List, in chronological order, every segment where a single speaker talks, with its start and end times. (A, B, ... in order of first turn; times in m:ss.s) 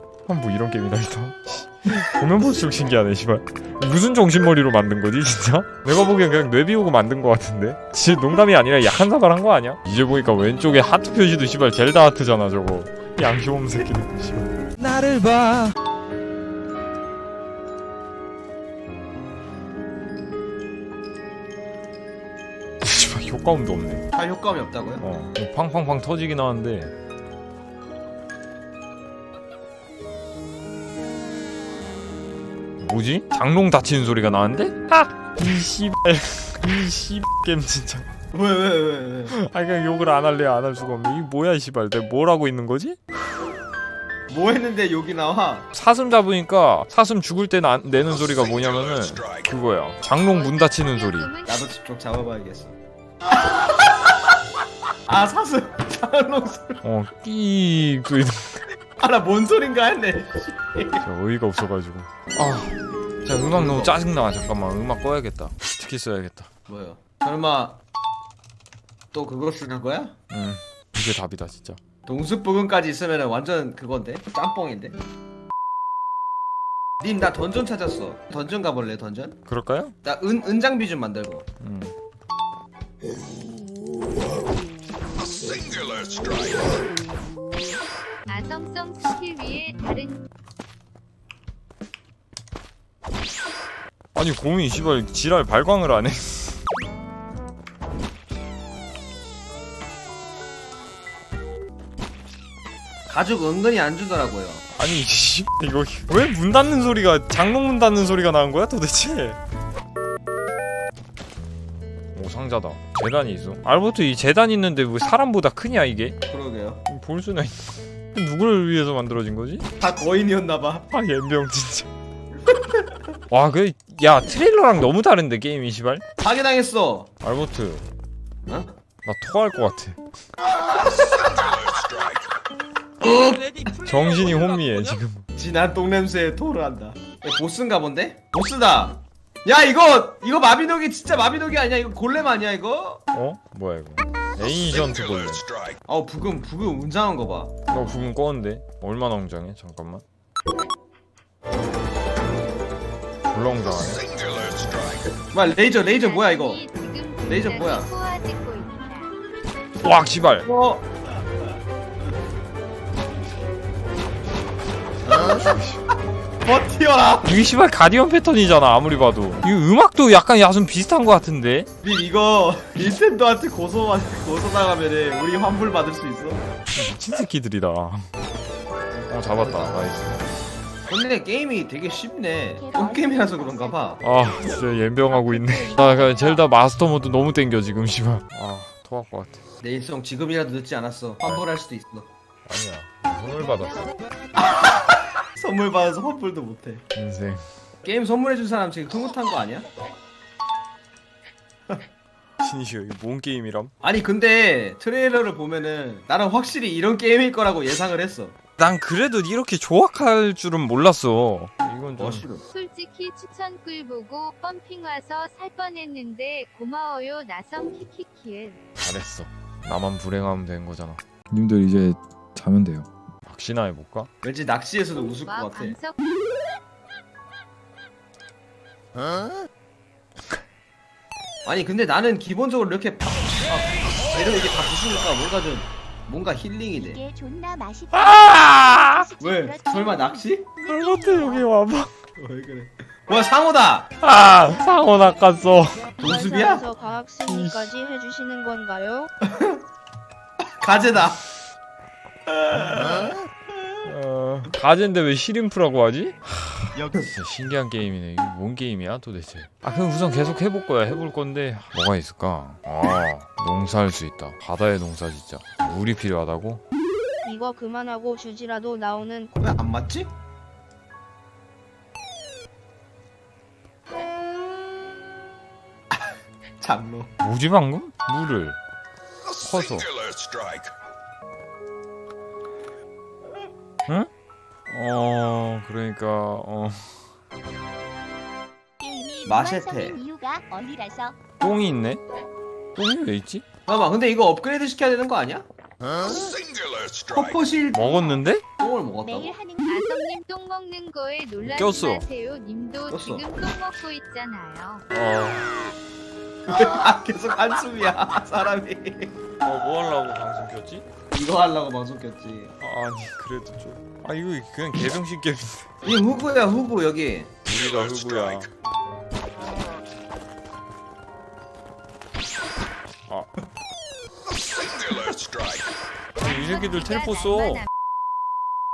0:00.3-0:15.7 A
0:22.8-0:24.0 A
0:24.1-0:25.1 B
0:25.0-0:26.9 A
0:32.8-0:38.1 A
0:38.3-0:39.4 B
0:39.3-0:43.0 A
0:44.3-0:45.7 B
0:45.7-0:51.3 A
0:50.3-0:51.7 C
0:51.5-0:54.4 B
0:55.1-0:56.8 B
0:56.8-0:58.6 A
0:59.0-1:01.0 B
1:01.0-1:06.5 A
1:03.5-1:04.0 B
1:06.7-1:07.8 B
1:09.1-1:10.2 B
1:10.3-1:11.8 A
1:12.1-1:15.0 B
1:17.0-1:19.4 B
1:19.5-1:20.0 A
1:20.0-1:21.4 B
1:21.6-1:21.9 A
1:28.3-1:30.2 C
1:34.2-1:36.6 A
1:43.1-1:44.6 B
1:44.8-1:49.4 A
1:52.1-1:56.2 A
1:56.3-1:56.8 B
1:56.9-1:59.7 A
1:59.8-2:00.9 B
2:00.9-2:01.9 A
2:03.3-2:06.0 A
2:06.2-2:07.1 B
2:07.2-2:07.8 A
2:08.5-2:08.7 B
2:09.0-2:10.0 A
2:10.6-2:12.2 B
2:13.0-2:13.6 B
2:13.8-2:15.3 A
2:15.4-2:23.0 B
2:23.1-2:25.5 A
2:25.9-2:27.5 B
2:27.7-2:30.0 A
2:33.3-2:34.1 A
2:35.3-2:36.6 B
2:35.6-2:39.2 C
2:37.2-2:37.9 B
2:39.8-2:40.5 A
2:40.4-2:40.9 B
2:45.0-2:45.6 B
2:45.2-2:45.8 A
2:46.4-2:47.3 B
2:47.2-2:51.7 A
2:51.8-2:56.4 B
2:56.7-2:58.1 A
2:59.1-3:00.3 A
2:59.3-2:59.9 B
3:00.9-3:04.0 B
3:02.6-3:04.0 D
3:04.0-3:09.4 A
3:09.6-3:12.1 B
3:12.5-3:13.9 A
3:14.4-3:16.8 B
3:17.0-3:17.4 A
3:17.8-3:19.7 B
3:22.4-3:23.7 A
3:23.8-3:28.4 B
3:28.6-3:32.2 A
3:32.0-3:32.4 B
3:32.5-3:38.6 C
3:38.8-3:44.1 A
3:44.2-3:45.8 B
3:45.2-3:46.0 C
3:51.4-3:57.0 B
3:56.7-3:58.4 D
3:57.9-3:59.1 A
3:59.0-4:01.4 D
3:59.2-4:00.5 B
4:00.6-4:01.9 A
4:02.2-4:03.9 B
4:04.0-4:06.0 A
4:06.0-4:06.7 B
4:06.0-4:09.1 E
4:07.2-4:07.7 A
4:09.3-4:09.6 B
4:10.6-4:11.2 B
4:12.3-4:13.2 B
4:13.8-4:26.6 A
4:16.7-4:17.1 B
4:27.2-4:29.4 E
4:29.4-4:30.1 B
4:35.9-4:37.1 B
4:37.2-4:38.6 A
4:39.4-4:39.9 A
4:44.7-4:47.0 A
4:48.8-4:51.2 D
4:49.2-4:50.0 B
4:51.4-4:52.0 A
4:52.8-4:53.4 A
4:53.7-4:55.4 B
4:55.9-4:56.3 D
4:57.1-4:59.4 B
4:57.7-4:58.4 A
4:59.0-4:59.7 D
4:59.6-5:04.9 C
5:01.4-5:02.1 A
5:02.9-5:03.2 B
5:04.9-5:05.5 A
5:06.5-5:09.2 B
5:09.4-5:10.9 A
5:11.1-5:12.5 B
5:12.6-5:15.9 A
5:15.8-5:17.3 B
5:17.5-5:18.5 A
5:26.2-5:27.6 A
5:26.2-5:27.7 C